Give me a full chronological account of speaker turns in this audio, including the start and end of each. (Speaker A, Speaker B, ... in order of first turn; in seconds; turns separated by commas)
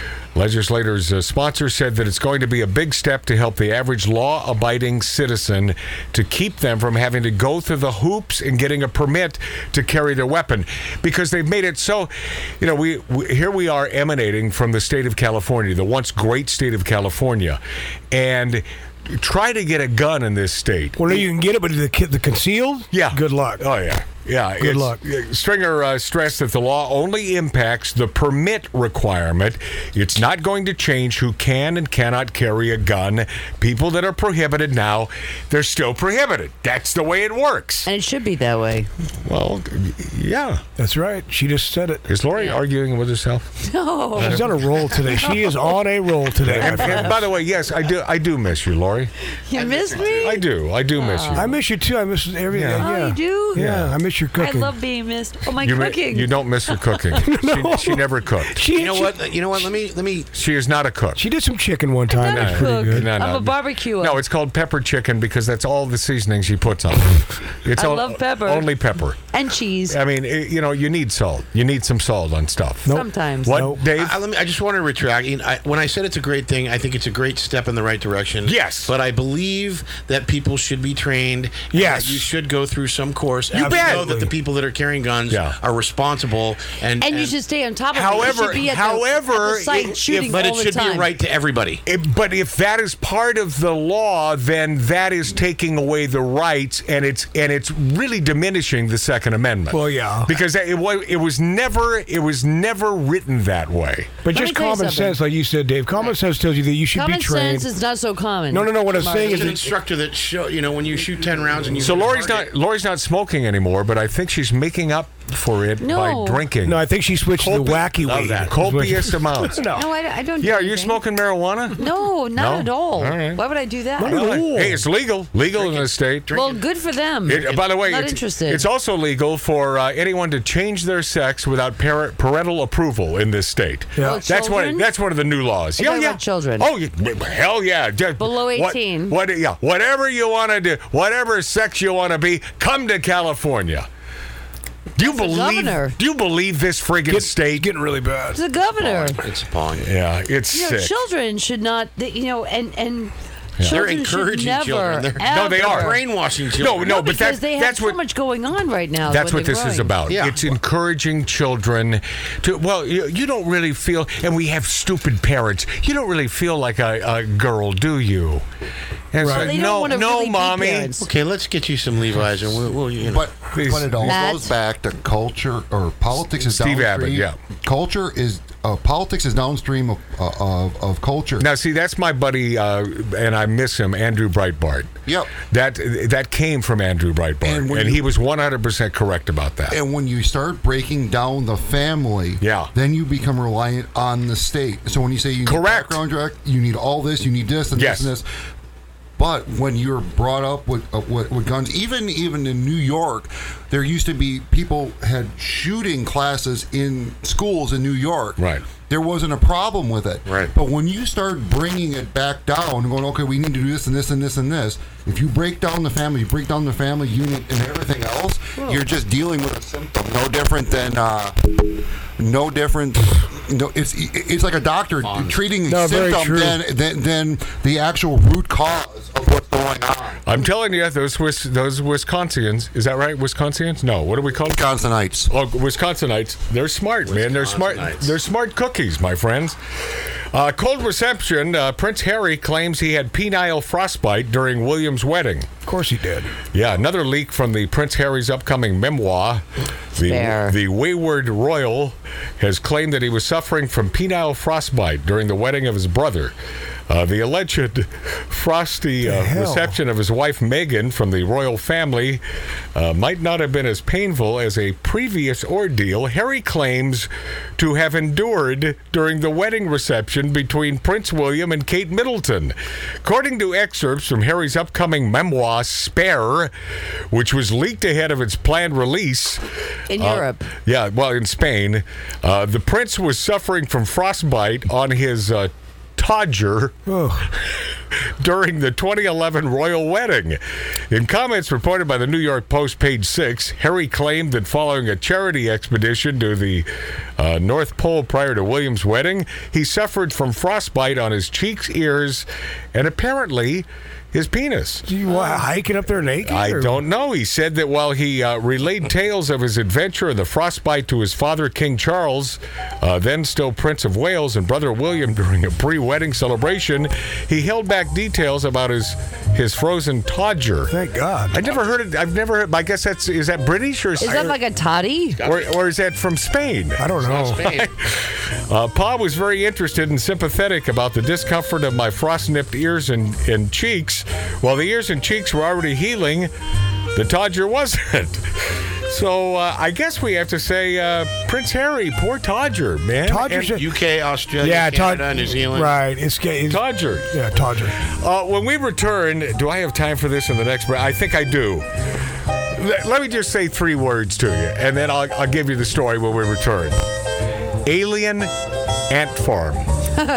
Speaker A: 0.3-17.6, Speaker A: 18.1-21.3, Speaker B: 21.0-23.7, Speaker A: 22.9-37.9, Speaker B: 24.6-25.0, Speaker C: 37.9-38.9, Speaker A: 39.2-40.6, Speaker B: 40.8-42.0, Speaker A: 42.1-43.5, Speaker C: 43.6-44.5, Speaker B: 44.2-47.2, Speaker A: 44.2-44.5, Speaker C: 45.0-45.6, Speaker A: 46.4-49.1, Speaker C: 46.6-47.2, Speaker C: 49.5-50.4, Speaker D: 49.5-50.4, Speaker A: 50.2-51.5, Speaker C: 51.0-51.6, Speaker B: 51.3-54.7, Speaker A: 52.5-52.9, Speaker C: 52.8-53.6, Speaker A: 53.5-54.0, Speaker C: 54.4-57.2, Speaker A: 55.6-58.7, Speaker B: 57.1-59.1, Speaker D: 58.7-60.3, Speaker A: 60.3-61.2, Speaker B: 61.2-63.1, Speaker C: 62.1-64.2, Speaker A: 62.3-69.2, Speaker C: 67.7-68.8, Speaker C: 69.3-70.0, Speaker A: 69.9-74.2, Speaker B: 72.8-73.9, Speaker C: 72.9-73.6, Speaker D: 74.0-87.4, Speaker A: 78.4-78.9, Speaker B: 81.7-82.3, Speaker B: 83.5-84.3, Speaker A: 83.6-84.1, Speaker A: 85.3-85.6, Speaker C: 87.0-91.1, Speaker A: 87.9-90.4, Speaker D: 90.3-91.8, Speaker A: 91.9-104.2, Speaker B: 99.7-100.4, Speaker B: 104.2-107.7, Speaker C: 104.3-105.2, Speaker C: 106.9-109.7, Speaker B: 108.5-109.7, Speaker D: 109.1-112.5, Speaker A: 111.8-119.7, Speaker C: 115.8-116.5, Speaker B: 116.7-119.9, Speaker C: 119.7-121.0, Speaker A: 120.4-121.8, Speaker C: 121.7-124.2, Speaker A: 122.3-123.4, Speaker B: 124.0-124.9, Speaker A: 124.0-126.3, Speaker D: 125.5-126.7, Speaker C: 126.3-128.6, Speaker A: 127.3-143.9, Speaker D: 127.3-127.7, Speaker B: 134.0-134.3, Speaker C: 134.0-134.9, Speaker C: 135.8-136.7, Speaker C: 138.2-139.2, Speaker A: 145.0-147.7, Speaker C: 145.0-146.0, Speaker B: 147.1-148.4, Speaker C: 148.3-149.2, Speaker D: 148.8-149.9, Speaker A: 149.8-151.0, Speaker C: 150.5-156.0, Speaker D: 153.6-157.0, Speaker A: 155.2-155.9, Speaker A: 156.6-158.0, Speaker C: 156.8-160.0, Speaker A: 159.1-168.4, Speaker D: 160.1-160.5, Speaker A: 169.1-170.9, Speaker B: 169.2-169.5, Speaker C: 169.3-171.1, Speaker D: 171.0-173.3, Speaker E: 173.1-181.5, Speaker A: 173.5-174.2, Speaker C: 174.0-174.5, Speaker A: 176.2-177.4, Speaker A: 181.4-189.8, Speaker E: 185.1-185.4, Speaker E: 187.4-188.1, Speaker E: 189.7-198.3, Speaker A: 192.4-192.7, Speaker A: 195.4-196.0, Speaker A: 197.7-198.1, Speaker E: 199.2-230.3, Speaker A: 208.4-208.7, Speaker D: 210.3-210.5, Speaker D: 225.0-225.4, Speaker B: 225.7-226.6, Speaker A: 230.2-234.7, Speaker E: 234.4-235.3, Speaker A: 235.3-239.6, Speaker D: 237.1-238.2, Speaker A: 240.3-245.5, Speaker B: 245.7-246.3, Speaker A: 246.5-249.4, Speaker C: 250.0-250.6, Speaker A: 250.0-256.3, Speaker A: 256.9-262.2, Speaker B: 259.0-259.8, Speaker A: 262.8-276.5, Speaker A: 277.1-304.9, Speaker C: 279.9-280.5, Speaker B: 286.9-287.3, Speaker B: 304.9-306.8, Speaker A: 306.2-320.8, Speaker B: 320.7-321.4, Speaker A: 321.3-324.3, Speaker C: 324.0-325.2, Speaker B: 324.1-324.4, Speaker D: 325.2-325.6, Speaker A: 325.2-336.3, Speaker B: 326.8-327.4, Speaker D: 327.0-327.7, Speaker A: 336.9-343.5, Speaker B: 343.0-343.6, Speaker D: 343.3-345.8, Speaker B: 344.4-347.8, Speaker A: 346.5-347.2, Speaker A: 347.8-351.7, Speaker A: 352.4-356.8, Speaker A: 357.6-358.3, Speaker A: 358.9-359.7